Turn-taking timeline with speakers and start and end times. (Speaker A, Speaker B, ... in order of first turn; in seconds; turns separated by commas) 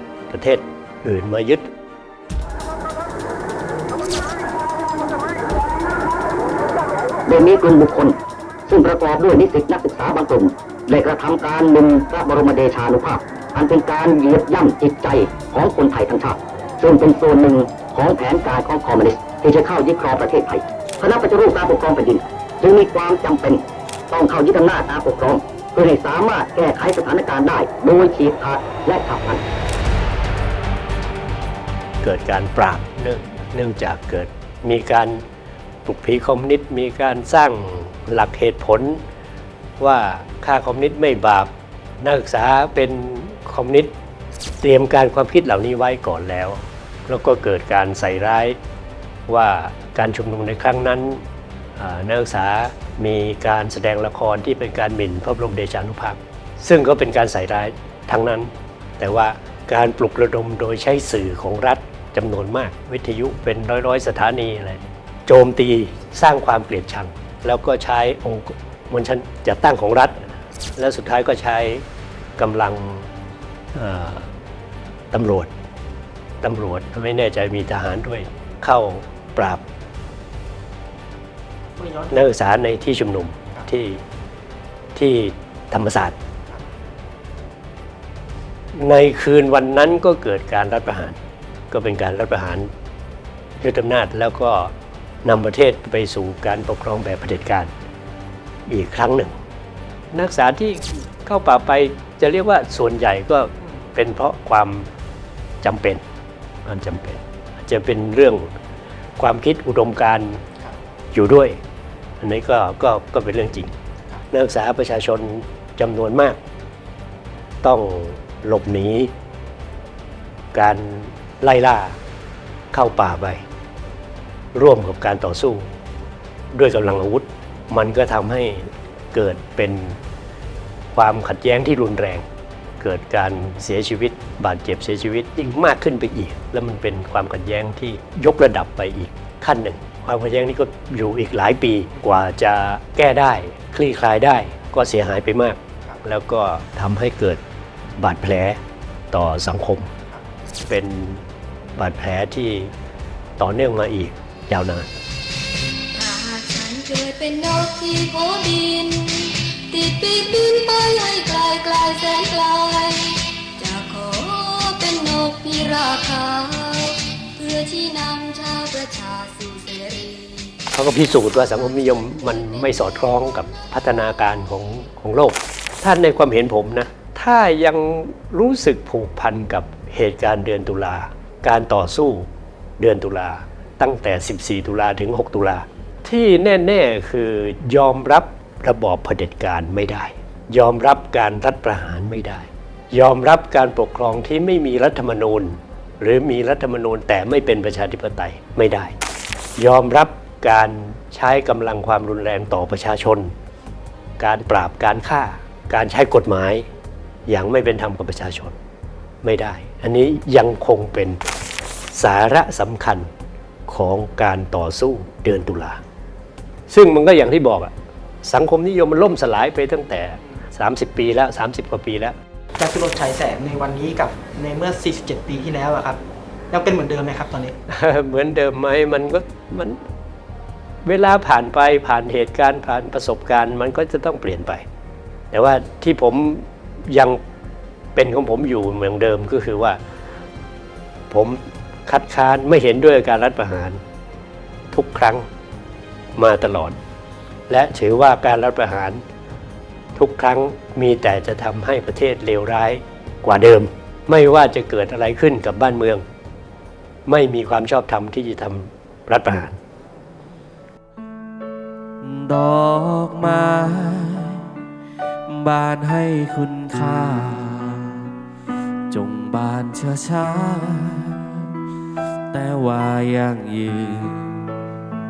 Speaker A: 0.3-1.7, Speaker B: 7.3-8.2, Speaker B: 8.7-29.4, Speaker A: 32.0-35.2, Speaker A: 35.9-39.0, Speaker A: 39.8-43.9, Speaker A: 44.6-48.6, Speaker A: 49.3-51.2, Speaker A: 51.8-71.8, Speaker A: 72.4-73.1, Speaker A: 73.8-74.3, Speaker A: 75.1-75.5, Speaker A: 76.4-79.6, Speaker C: 81.8-82.1, Speaker A: 82.1-84.0, Speaker A: 85.0-86.2, Speaker A: 88.8-91.2, Speaker A: 91.7-92.7, Speaker A: 93.6-94.7, Speaker A: 95.2-97.7, Speaker A: 98.7-99.4, Speaker A: 100.1-104.9, Speaker A: 105.6-106.0, Speaker A: 106.7-108.5, Speaker A: 109.2-110.4, Speaker A: 111.1-111.6, Speaker A: 112.2-113.7, Speaker A: 114.3-116.4, Speaker A: 117.6-119.1, Speaker A: 120.5-122.0, Speaker A: 122.7-123.4, Speaker A: 124.5-125.7, Speaker A: 126.5-130.0, Speaker A: 130.9-132.3, Speaker A: 132.8-147.4, Speaker A: 148.0-148.6, Speaker A: 149.1-149.9, Speaker A: 150.7-151.2, Speaker A: 151.8-152.7, Speaker A: 153.4-154.9, Speaker D: 155.9-170.7, Speaker A: 170.7-182.3, Speaker D: 171.9-173.6, Speaker A: 182.8-198.9, Speaker A: 199.6-203.3, Speaker A: 204.2-206.7, Speaker A: 207.3-208.6, Speaker A: 209.2-211.2, Speaker A: 211.9-213.1, Speaker A: 213.7-215.8, Speaker A: 216.7-217.7, Speaker A: 218.2-222.2, Speaker C: 222.6-226.0, Speaker C: 226.5-227.5, Speaker A: 227.7-229.8, Speaker A: 230.8-234.6, Speaker A: 235.3-237.2, Speaker A: 237.9-239.8, Speaker A: 241.1-243.8, Speaker A: 244.7-245.3, Speaker A: 246.2-246.8, Speaker A: 247.5-249.0, Speaker A: 250.0-256.0, Speaker A: 257.1-259.6, Speaker E: 262.0-264.5, Speaker E: 265.3-268.1, Speaker E: 268.9-271.4, Speaker E: 272.3-274.4